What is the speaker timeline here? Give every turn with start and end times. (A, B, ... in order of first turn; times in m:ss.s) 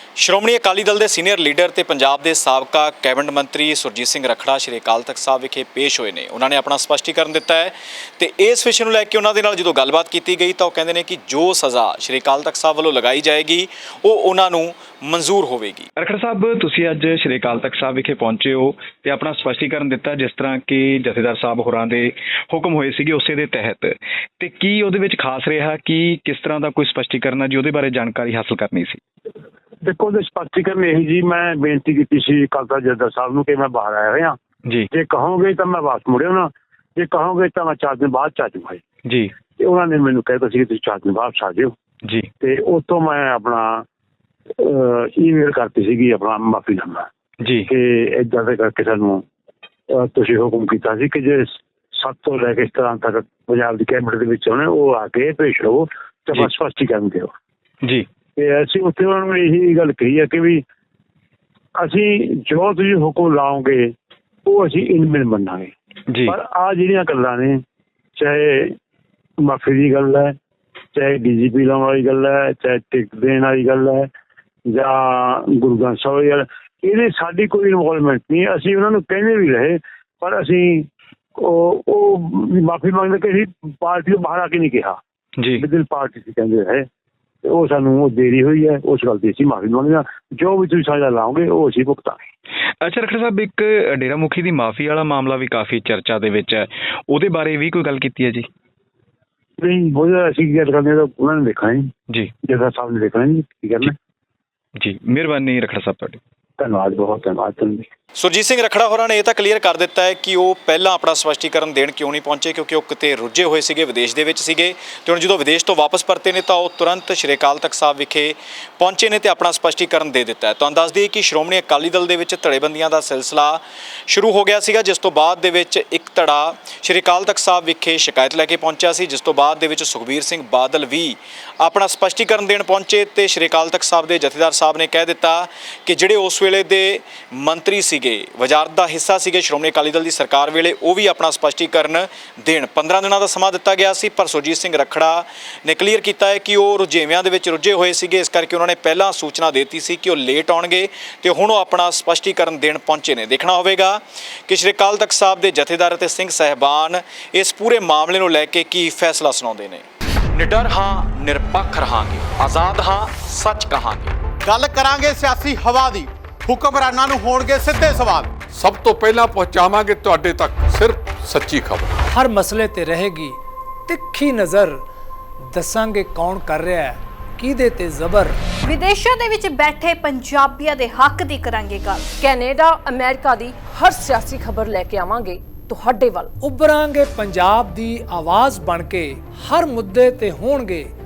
0:00.2-0:15.9 A
0:16.0-0:29.0 B
0:29.8-0:34.4 C
0:34.9-0:38.8 C
0:39.1-0:39.3 B
0:39.6-0:41.7 C
0:42.4-0:43.8 C
0:44.6-0:47.1 C
0:47.4-0:47.7 B
0:47.7-0:49.2 C
0:49.9-0:57.3 C
0:58.4-1:00.6 C
1:01.8-1:03.9 C
1:04.4-1:05.7 C
1:06.2-1:07.6 C
1:08.2-1:08.7 C
1:09.4-1:10.3 C
1:10.9-1:14.1 C
1:14.7-1:25.0 C
1:25.6-1:26.8 C
1:27.4-1:32.2 C
1:32.8-1:38.5 B
1:39.6-1:41.9 C
1:42.4-1:43.9 C
1:44.8-1:46.2 B
1:46.6-1:47.8 C
1:48.2-2:44.1 A
2:44.4-2:48.4 D
2:48.5-2:51.9 E
2:52.1-2:54.8 F
2:55.5-2:58.4 F
2:58.6-3:02.1 G
3:02.2-3:06.3 H
3:06.4-3:10.9 F